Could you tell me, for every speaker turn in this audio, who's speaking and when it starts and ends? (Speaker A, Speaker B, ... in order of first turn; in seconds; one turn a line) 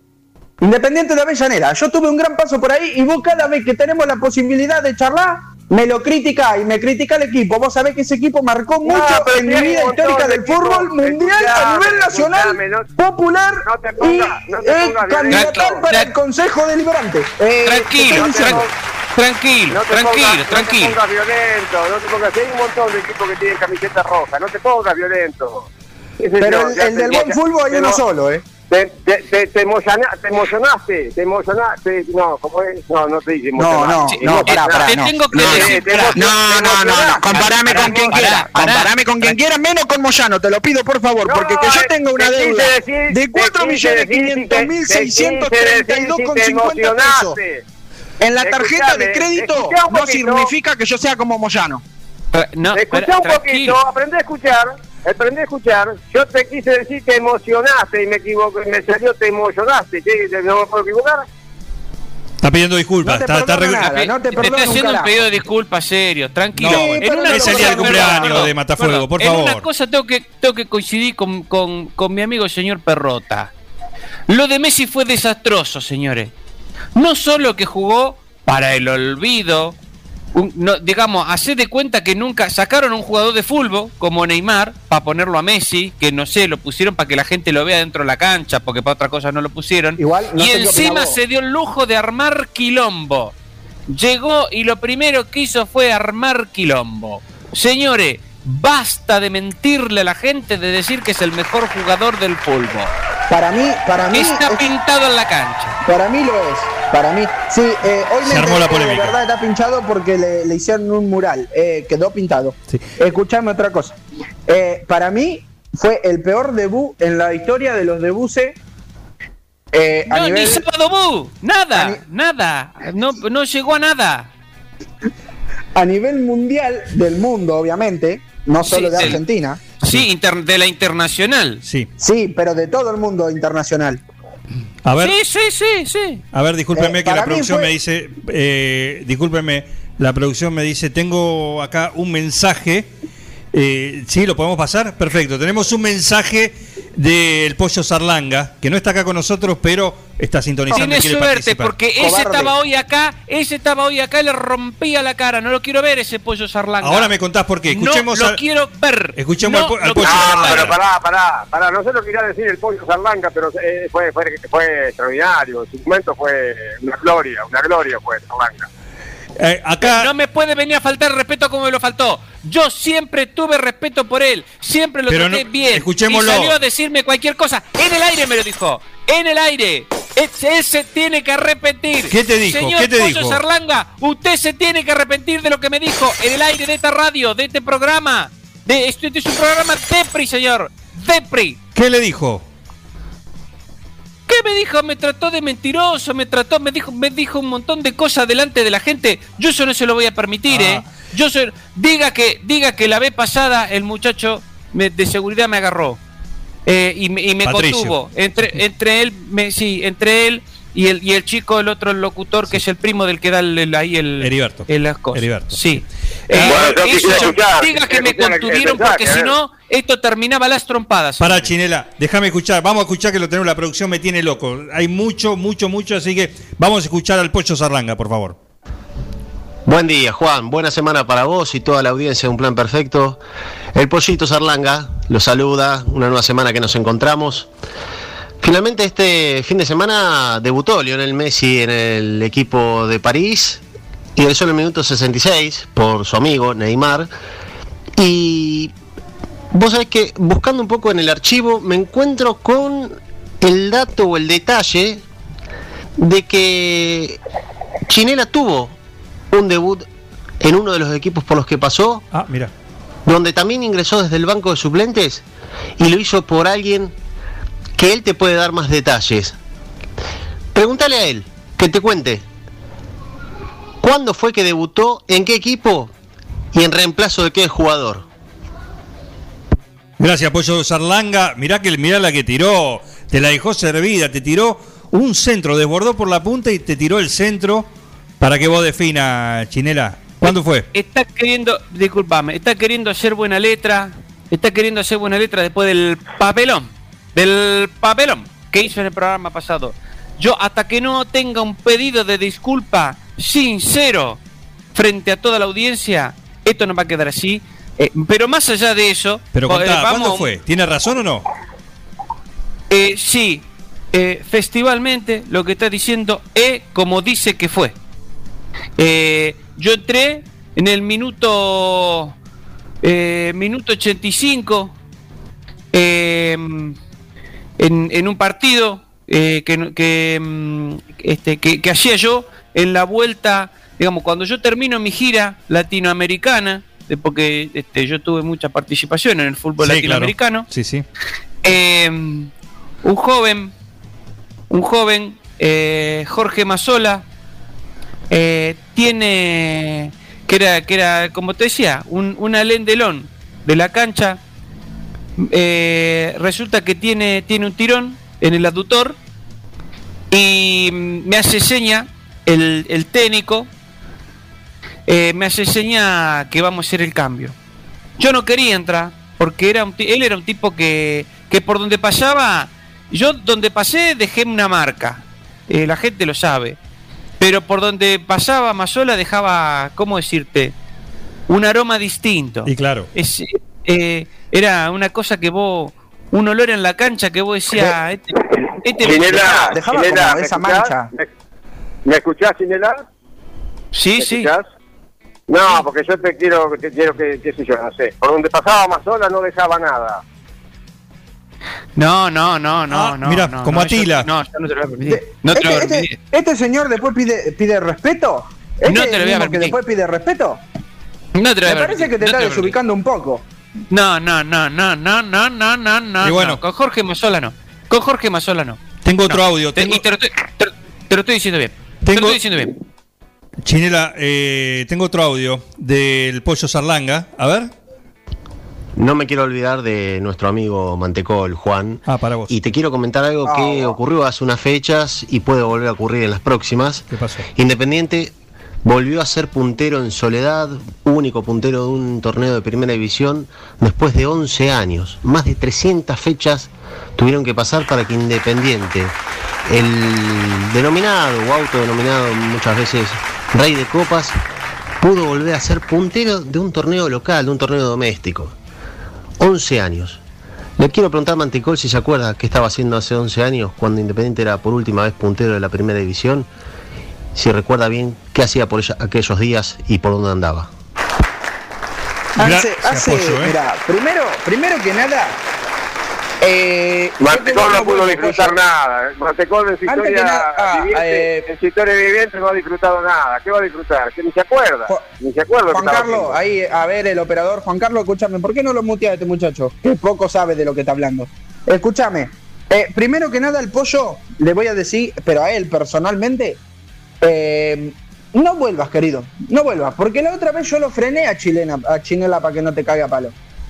Speaker A: 0.6-18.7
Speaker B: 8.8-12.9
Speaker B: 13.7-15.8
Speaker C: 15.3-16.1
Speaker C: 17.6-21.0
Speaker B: 18.0-18.7
Speaker B: 19.7-25.7
Speaker B: 26.2-28.0
Speaker A: 26.4-28.4
Speaker B: 28.7-38.4
Speaker A: 33.6-47.4
Speaker C: 34.1-36.3
Speaker C: 37.3-39.3
Speaker B: 41.2-47.6
Speaker A: 48.2-51.8
Speaker B: 48.4-50.5
Speaker C: 52.3-53.8
Speaker B: 52.7-61.2
Speaker D: 62.4-63.9
Speaker A: 63.0-65.2
Speaker C: 63.8-73.5
Speaker D: 66.6-69.7
Speaker A: 66.6-68.5
Speaker C: 74.3-76.3
Speaker C: 77.0-79.8
Speaker C: 80.3-93.3
Speaker A: 90.0-91.2
Speaker C: 93.9-102.9
Speaker A: 103.3-104.8
Speaker C: 104.1-105.8
Speaker A: 105.8-118.6
Speaker D: 108.2-109.2
Speaker A: 119.7-120.7
Speaker C: 120.1-124.3
Speaker A: 121.7-122.0
Speaker A: 125.8-129.6
Speaker C: 128.7-129.2
Speaker C: 129.8-131.6
Speaker D: 131.6-131.9
Speaker A: 132.0-134.0
Speaker D: 134.8-135.2
Speaker C: 135.0-136.2
Speaker D: 136.3-142.9
Speaker A: 136.8-137.7
Speaker D: 143.5-151.7
Speaker C: 150.7-157.1
Speaker A: 152.0-152.5
Speaker D: 156.8-158.4
Speaker C: 157.7-160.7
Speaker D: 159.2-160.8
Speaker B: 160.0-168.7
Speaker D: 169.4-170.1
Speaker C: 169.8-191.6
Speaker D: 175.1-176.6
Speaker D: 182.1-183.4
Speaker D: 191.8-192.4
Speaker C: 194.3-206.0
Speaker D: 200.5-200.8
Speaker C: 206.7-221.5
Speaker D: 207.4-208.0
Speaker D: 214.2-215.7
Speaker D: 216.3-217.3
Speaker B: 216.4-219.3
Speaker D: 221.2-228.4
Speaker E: 229.7-233.2
Speaker E: 233.7-237.5
Speaker E: 238.4-243.6
Speaker E: 244.2-247.1
Speaker E: 248.0-248.7
Speaker E: 249.5-255.0
Speaker E: 256.0-257.2
Speaker E: 257.9-258.8
Speaker E: 259.3-259.9
Speaker E: 260.4-262.0
Speaker D: 262.1-262.5
Speaker E: 263.1-265.2
Speaker E: 265.8-266.9
Speaker E: 267.8-269.4
Speaker E: 270.5-272.2
Speaker E: 273.8-275.9
Speaker E: 276.5-278.1
Speaker D: 280.0-287.7
Speaker D: 288.2-290.7
Speaker C: 290.3-304.2
Speaker C: 304.7-310.3
Speaker D: 309.3-311.2
Speaker C: 312.7-317.8
Speaker C: 318.8-322.1
Speaker C: 322.8-324.7
Speaker C: 325.7-326.8
Speaker C: 327.6-340.5
Speaker D: 339.6-340.9
Speaker C: 341.4-342.3
Speaker C: 342.8-343.5
Speaker C: 344.5-347.1
Speaker C: 348.1-354.2
Speaker C: 355.2-359.0
Speaker C: 360.1-363.5
Speaker C: 364.9-367.4
Speaker C: 368.0-376.6
Speaker C: 377.2-380.5
Speaker C: 381.3-389.5
Speaker D: 382.5-382.9
Speaker B: 388.8-391.1
Speaker A: 388.9-390.9
Speaker B: 391.9-392.8
Speaker C: 393.7-394.3
Speaker B: 394.0-394.5
Speaker B: 395.3-400.0
Speaker C: 401.8-406.0
Speaker D: 402.7-404.1
Speaker A: 404.9-410.4
Speaker C: 408.7-409.6
Speaker C: 411.1-412.6
Speaker A: 411.4-413.2
Speaker C: 413.7-422.6
Speaker D: 416.0-416.4
Speaker D: 418.8-419.8
Speaker D: 421.9-422.2
Speaker D: 423.4-427.5
Speaker E: 428.8-438.1
Speaker D: 431.9-432.4
Speaker A: 433.2-433.8
Speaker D: 436.9-437.2
Speaker E: 438.6-454.2
Speaker E: 454.8-458.4
Speaker E: 459.2-460.0
Speaker E: 460.6-466.3
Speaker E: 467.1-470.5
Speaker A: 472.2-475.2
Speaker D: 472.2-473.3
Speaker A: 476.2-478.4
Speaker B: 477.0-486.2
Speaker A: 479.7-481.3
Speaker A: 485.5-496.4
Speaker A: 497.0-503.1